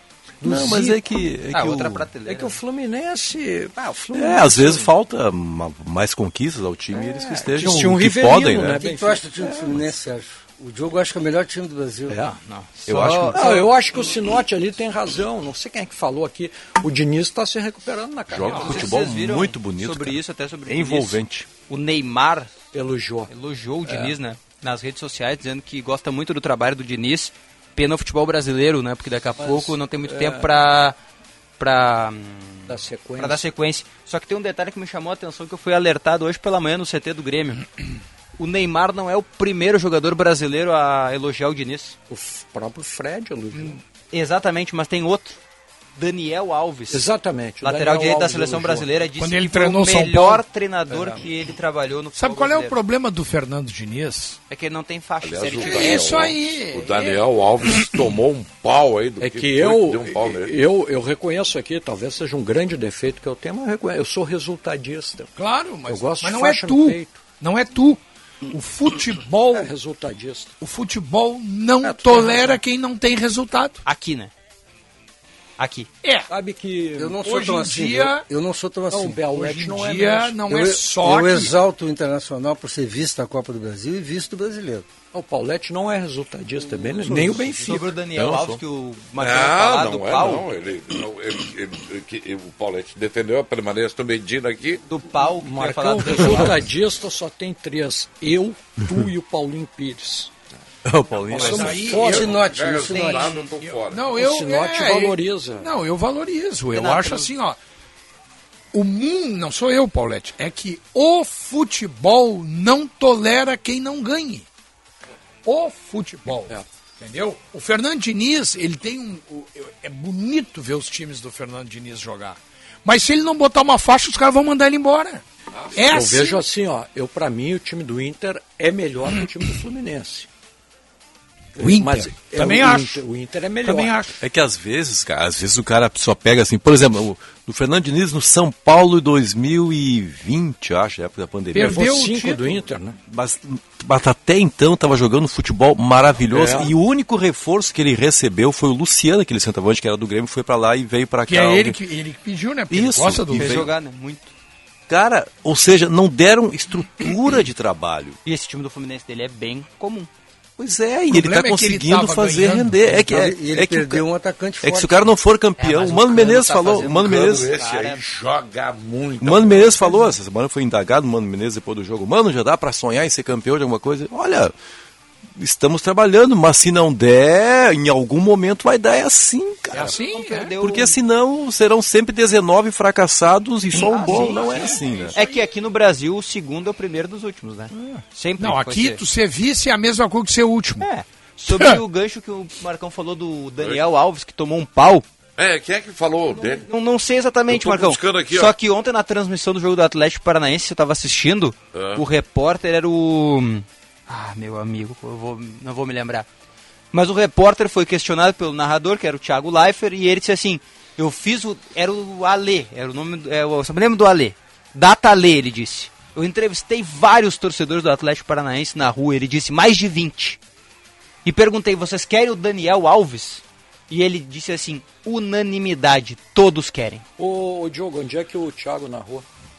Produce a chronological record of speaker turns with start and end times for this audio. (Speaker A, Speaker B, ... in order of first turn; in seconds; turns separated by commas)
Speaker A: 0.4-1.1, Speaker B: 0.4-2.1, Speaker C: 1.5-2.6, Speaker A: 2.2-4.9, Speaker B: 4.1-8.8, Speaker A: 6.9-9.8, Speaker D: 8.7-12.2, Speaker C: 12.3-13.6, Speaker B: 12.9-13.6, Speaker A: 12.9-19.0, Speaker B: 18.3-21.5, Speaker E: 18.5-18.8, Speaker C: 18.5-22.6, Speaker A: 22.7-23.3, Speaker C: 23.3-31.0, Speaker A: 23.8-24.2, Speaker A: 29.4-30.6, Speaker C: 31.6-37.7, Speaker A: 32.7-33.5, Speaker C: 38.4-42.0, Speaker A: 42.1-43.8, Speaker C: 43.5-45.4, Speaker C: 46.0-47.1, Speaker A: 46.9-48.9, Speaker C: 47.6-52.8, Speaker E: 49.2-50.4, Speaker A: 50.9-51.2, Speaker E: 52.2-54.4, Speaker C: 54.5-56.2, Speaker F: 55.2-60.6, Speaker E: 55.6-57.2, Speaker A: 59.2-65.3, Speaker E: 65.4-69.7, Speaker A: 65.9-67.2, Speaker A: 69.5-70.5, Speaker E: 70.6-73.8, Speaker A: 71.8-72.6, Speaker C: 73.8-74.3, Speaker C: 75.6-75.9, Speaker E: 76.0-76.3, Speaker A: 76.3-77.2, Speaker D: 77.0-79.2, Speaker E: 77.2-78.2, Speaker A: 78.9-80.4, Speaker E: 79.3-81.5, Speaker D: 80.5-84.9, Speaker A: 85.1-88.0, Speaker D: 86.7-87.6, Speaker C: 87.6-90.5, Speaker B: 88.1-88.6, Speaker F: 89.2-94.8, Speaker C: 94.9-96.6, Speaker A: 95.3-100.3, Speaker B: 100.8-101.8, Speaker A: 101.3-102.4, Speaker E: 101.3-102.3, Speaker F: 101.5-104.1, Speaker D: 101.9-103.4, Speaker C: 102.9-103.4, Speaker E: 103.6-107.6, Speaker A: 104.1-105.7, Speaker C: 106.7-107.3, Speaker E: 108.7-114.5, Speaker E: 115.5-125.2, Speaker E: 125.7-126.4, Speaker A: 125.9-130.3, Speaker A: 131.6-134.0, Speaker E: 131.6-133.0, Speaker E: 133.6-134.2, Speaker B: 134.2-141.9, Speaker E: 141.5-142.4, Speaker A: 141.6-143.0, Speaker B: 143.0-151.8, Speaker A: 146.3-146.8, Speaker E: 151.3-153.7, Speaker B: 152.7-153.7, Speaker C: 153.3-154.3, Speaker B: 154.9-158.2, Speaker C: 158.2-160.1, Speaker B: 160.6-164.0, Speaker E: 161.1-163.0, Speaker D: 163.0-165.1, Speaker B: 164.6-167.5, Speaker C: 165.6-168.0, Speaker F: 166.9-170.0, Speaker B: 169.2-174.5, Speaker B: 175.4-180.0, Speaker E: 179.7-180.5, Speaker C: 180.0-181.0, Speaker B: 180.6-185.2, Speaker C: 183.8-184.6, Speaker E: 183.9-185.4, Speaker C: 185.1-189.0, Speaker E: 187.7-190.9, Speaker C: 190.8-195.1, Speaker E: 191.5-191.8, Speaker F: 193.6-193.9, Speaker F: 195.4-196.7, Speaker C: 196.5-206.3, Speaker F: 197.5-198.5, Speaker F: 201.7-202.1, Speaker C: 206.9-220.4, Speaker C: 221.2-227.0, Speaker A: 227.2-229.2